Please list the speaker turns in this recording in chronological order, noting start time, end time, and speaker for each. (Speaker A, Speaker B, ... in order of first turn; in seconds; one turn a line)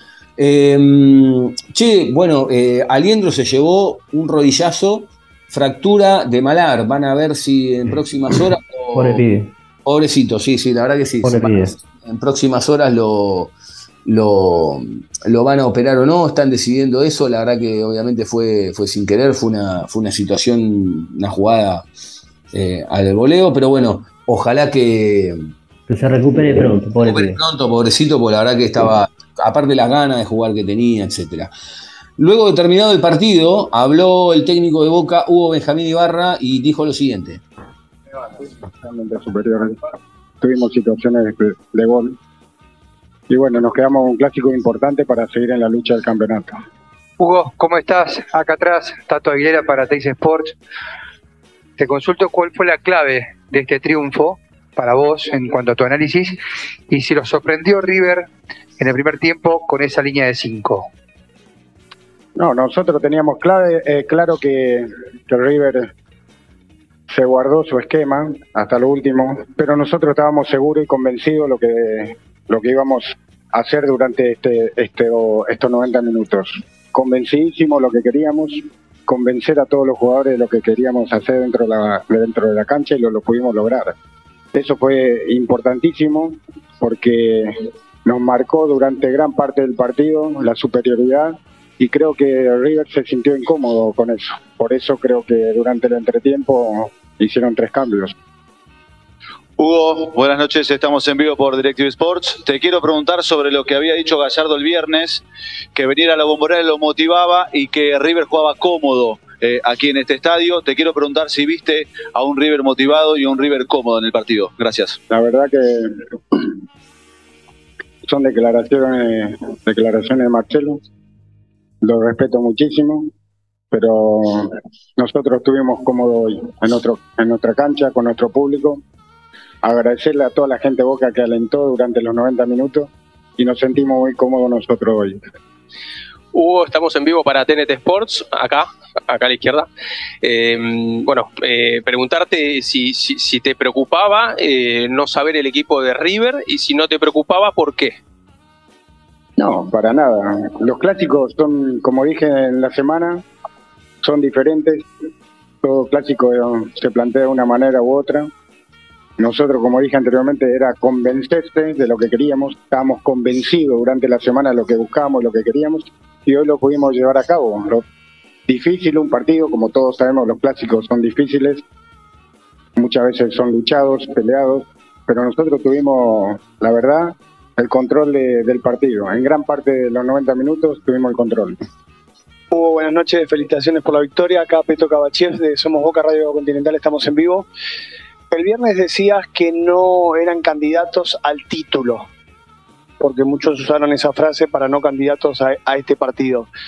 Speaker A: 0.4-9.2
Speaker B: 8.9-9.5
Speaker A: 9.8-13.5
Speaker B: 11.2-11.7
Speaker A: 14.0-21.9
Speaker A: 22.5-25.4
Speaker B: 25.9-27.4
Speaker A: 27.0-31.5
Speaker A: 32.2-37.4
Speaker C: 38.2-39.8
Speaker C: 40.4-42.2
Speaker C: 43.3-46.5
Speaker D: 47.2-50.5
Speaker D: 51.8-56.4
Speaker D: 56.9-58.3
Speaker D: 58.8-60.9
Speaker C: 62.4-65.9
Speaker C: 67.1-83.9
Speaker C: 84.5-87.5
Speaker C: 88.0-98.1
Speaker E: 99.6-105.2
Speaker E: 105.7-115.0
Speaker C: 115.1-116.5
Speaker C: 118.1-120.8
Speaker C: 121.8-123.1
Speaker C: 123.7-128.8
Speaker C: 129.6-135.2
Speaker F: 136.3-139.7
Speaker F: 140.2-148.0
Speaker C: 149.4-153.2
Speaker C: 154.0-154.9
Speaker C: 155.6-158.3
Speaker C: 159.2-167.8
Speaker C: 168.5-171.6
Speaker C: 172.8-181.6
Speaker G: 182.5-187.5
Speaker G: 188.3-192.1
Speaker G: 193.0-196.5